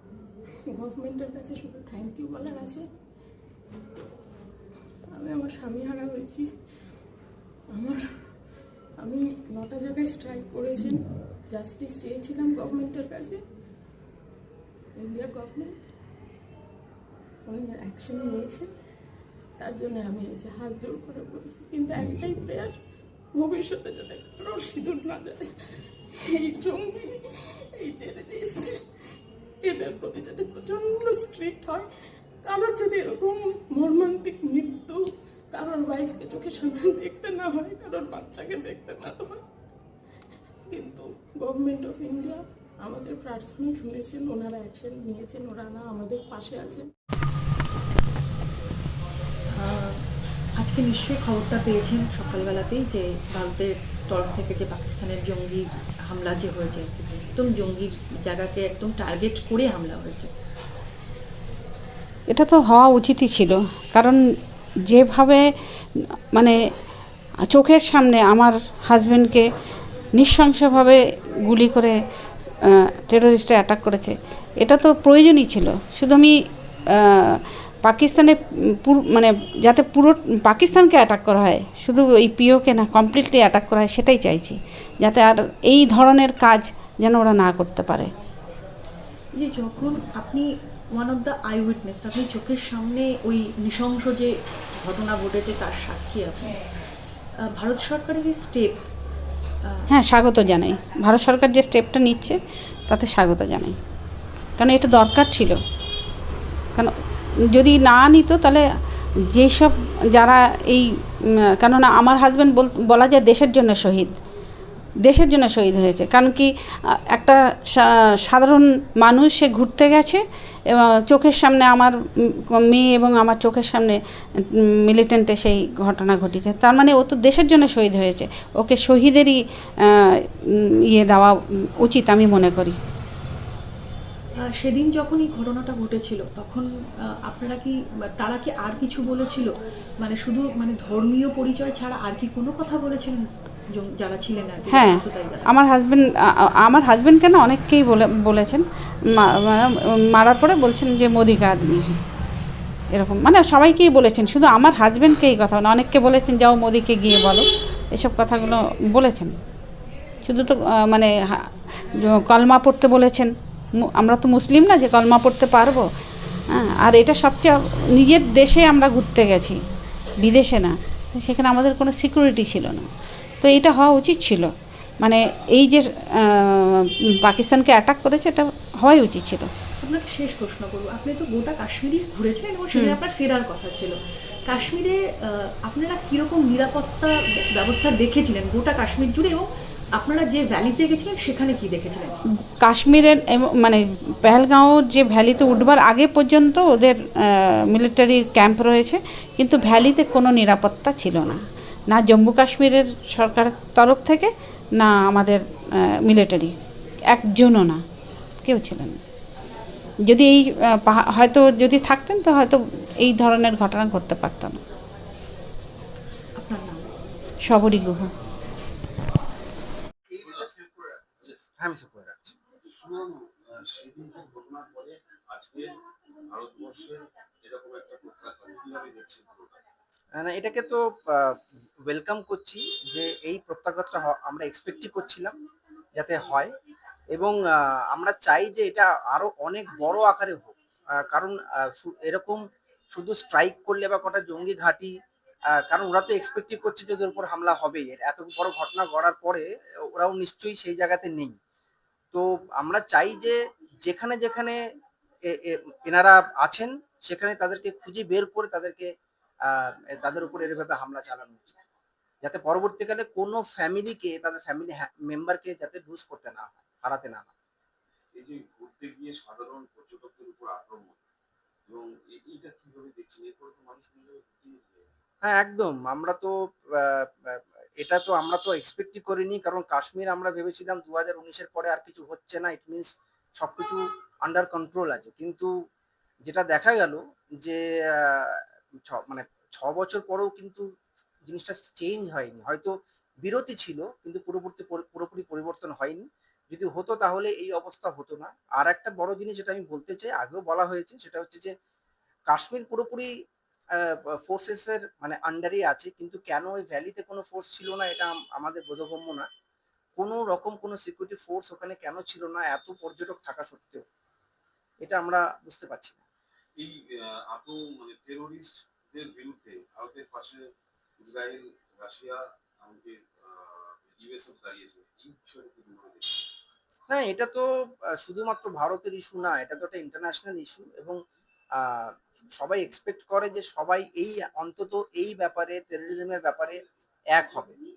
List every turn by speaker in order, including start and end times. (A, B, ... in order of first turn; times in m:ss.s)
0:00.7-0:02.8 A
0:05.1-0:06.5 A
0:07.7-0:08.1 A
0:09.0-0:13.4 A
0:15.0-0:15.7 A
0:17.5-0:18.7 A
0:19.6-0:22.8 A
0:23.3-0:27.2 A
0:27.8-0:28.8 A
0:29.6-0:31.9 A
0:32.4-0:39.4 A
0:40.7-0:46.9 A
0:49.5-0:50.0 B
0:50.6-1:00.3 B
1:02.3-1:04.2 C
1:04.9-1:05.4 C
1:07.5-1:09.4 C
1:10.2-1:11.9 C
1:12.7-1:16.3 C
1:16.9-1:28.1 C
1:29.3-1:36.6 B
1:37.4-1:38.8 B
1:39.6-1:39.9 B
1:39.9-1:43.8 C
1:44.6-1:45.6 C
1:47.5-1:48.6 C
1:49.4-1:50.8 C
1:51.6-1:54.2 C
1:55.0-1:56.5 C
1:57.1-2:01.9 C
2:02.5-2:10.3 C
2:10.9-2:12.8 C
2:14.4-2:25.6 B
2:24.8-2:28.6 C
2:29.2-2:31.9 C
2:33.0-2:39.3 C
2:40.3-2:41.5 C
2:42.0-2:43.3 C
2:43.8-2:45.8 C
2:46.5-2:49.6 C
2:50.3-2:52.8 C
2:53.4-2:54.5 C
2:55.0-2:59.5 C
2:59.8-3:09.4 B
3:10.0-3:12.2 B
3:12.6-3:17.0 C
3:17.7-3:21.4 C
3:21.9-3:26.5 C
3:27.1-3:27.8 C
3:28.4-3:29.0 C
3:30.1-3:34.6 C
3:36.4-3:36.9 B
3:37.5-3:38.1 C
3:40.2-3:41.4 D
3:41.6-3:42.4 E
3:42.7-3:49.6 D
3:50.2-3:51.4 E
3:51.9-3:55.4 E
3:56.0-3:56.5 E
3:57.1-4:02.4 E
4:02.9-4:04.9 E
4:05.6-4:11.4 E
4:12.1-4:14.6 E
4:15.3-4:18.9 E
4:19.5-4:21.6 E
4:22.2-4:27.3 E
4:28.2-4:31.0 D
4:31.7-4:34.9 D
4:35.2-4:45.5 E
4:46.2-4:50.6 E
4:51.3-4:52.7 E
4:53.2-5:01.5 E
5:02.3-5:03.1 E
5:03.8-5:09.3 E
5:10.0-5:13.8 E
5:14.8-5:16.0 E
5:16.6-5:20.4 D
5:21.0-5:26.2 D
5:26.9-5:27.4 E
5:28.0-5:31.0 E
5:31.6-5:36.6 E
5:37.1-5:37.6 E